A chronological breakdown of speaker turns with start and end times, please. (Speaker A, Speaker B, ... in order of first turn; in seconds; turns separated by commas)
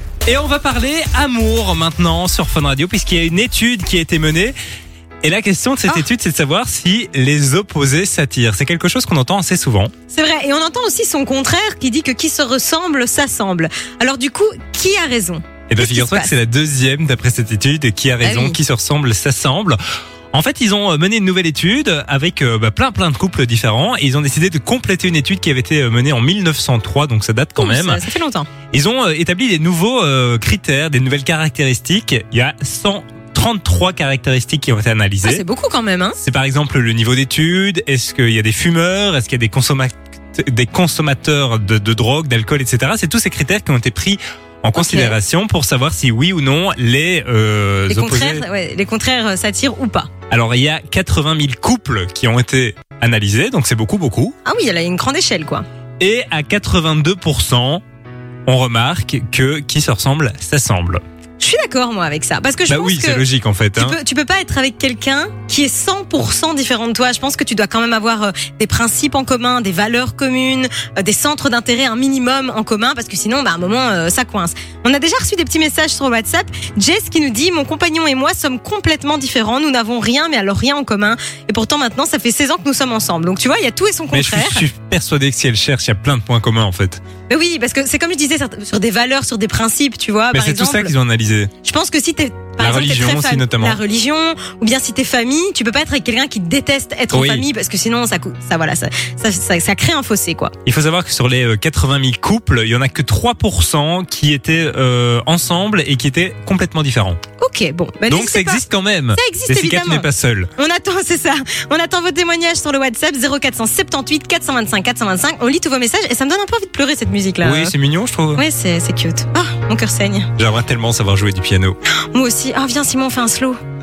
Speaker A: 0.2-4.5, Speaker A: 5.2-9.9, Speaker B: 10.1-16.3, Speaker A: 15.7-19.8, Speaker B: 18.2-18.6, Speaker A: 20.3-28.0, Speaker B: 27.6-28.5, Speaker A: 28.7-35.4, Speaker B: 35.2-36.2, Speaker A: 36.2-48.4, Speaker B: 44.8-45.2, Speaker B: 47.9-50.1, Speaker A: 50.3-54.3, Speaker B: 54.5-55.6, Speaker A: 56.0-57.8, Speaker A: 58.5-61.0, Speaker B: 61.4-63.2, Speaker A: 62.7-64.0, Speaker B: 63.8-84.6, Speaker A: 84.1-87.0, Speaker B: 87.3-90.9, Speaker A: 90.3-91.5, Speaker B: 91.6-100.5, Speaker A: 92.6-93.8, Speaker A: 97.1-97.5, Speaker A: 100.6-107.2, Speaker B: 107.4-108.6, Speaker A: 108.1-110.5, Speaker B: 109.2-117.7, Speaker A: 117.4-118.4, Speaker B: 118.3-120.3, Speaker A: 120.4-121.8, Speaker B: 122.1-123.6